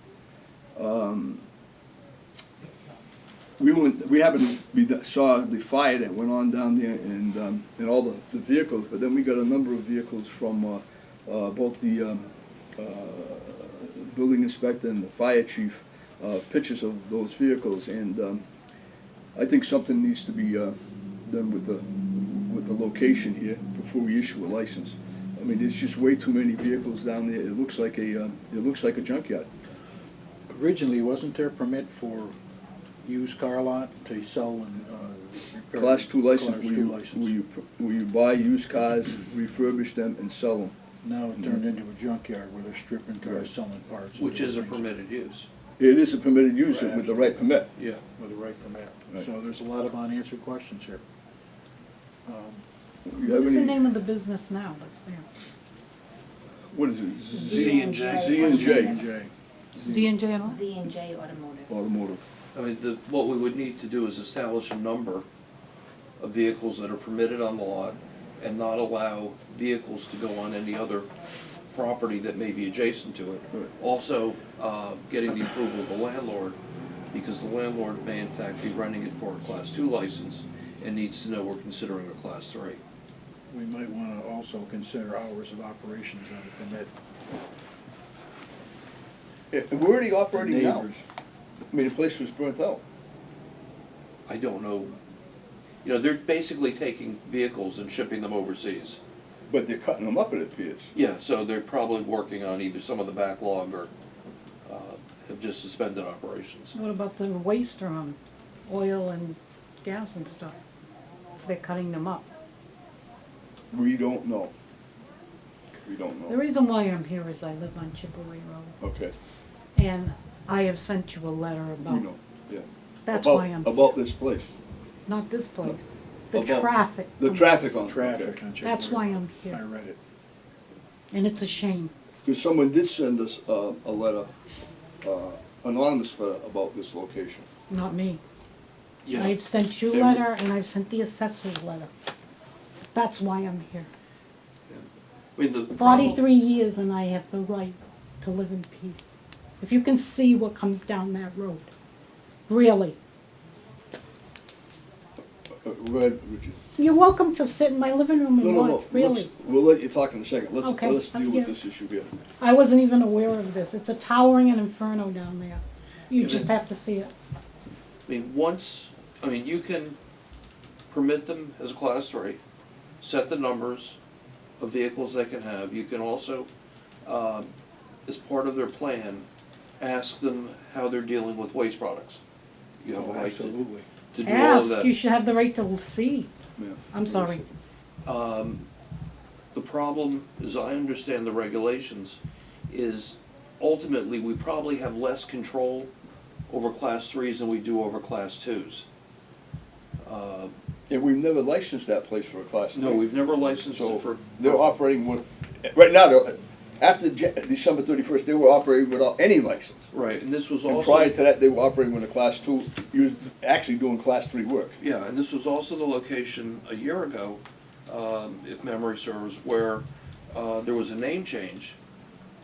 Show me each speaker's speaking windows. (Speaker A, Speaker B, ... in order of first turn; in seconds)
Speaker A: 0.8-1.4, 3.6-18.4, 19.4-29.5, 35.7-40.8, 43.2-43.5, 45.8-47.7, 53.1-53.8, 56.7-59.0, 61.7-62.2, 89.5-90.9, 91.7-92.8, 99.5-100.9, 113.7-114.5, 115.8-116.4, 118.8-119.1, 121.8-124.5, 126.3-128.4, 132.2-134.3, 135.0-137.5, 139.9-140.3, 155.6-156.6, 158.4-162.2, 186.6-187.5, 200.9-203.1, 203.7-209.9, 210.7-214.8
Speaker B: 30.5-32.4, 33.0-37.4, 41.0-44.9, 46.7-47.5, 48.2-51.0, 52.3-52.6, 57.4-59.3, 83.5-86.9, 90.3-91.0, 127.7-130.0, 182.9-183.9
Speaker C: 44.2-45.5, 47.8-48.0, 62.5-65.3, 66.2-71.1, 71.7-76.6, 77.1-82.8, 94.3-95.0, 95.8-99.0, 101.0-103.9, 104.7-106.8, 139.0-139.4, 144.7-146.2, 166.2-166.5, 168.1-170.0, 170.9-172.4, 173.0-174.0, 174.6-176.5, 177.0-177.5, 178.1-179.3, 179.8-182.2, 182.8-183.6, 184.1-184.9, 188.1-188.7, 189.5-195.9, 196.5-198.9, 200.0-200.5, 202.7-204.7, 209.9-211.2, 214.8-221.8
Speaker D: 53.2-55.2, 59.8-60.6, 106.7-110.6, 111.4-112.3, 116.3-118.8, 119.8-122.1, 123.1-123.8, 125.1-127.7, 128.6-129.6, 131.1-131.9, 137.7-138.2, 139.1-141.9, 142.9-143.9, 145.8-149.1, 149.6-151.7, 152.5-153.0, 156.8-159.3, 160.6-161.5, 162.4-167.1, 184.2-186.3, 186.9-187.4
Speaker E: 57.4-59.0, 60.5-61.7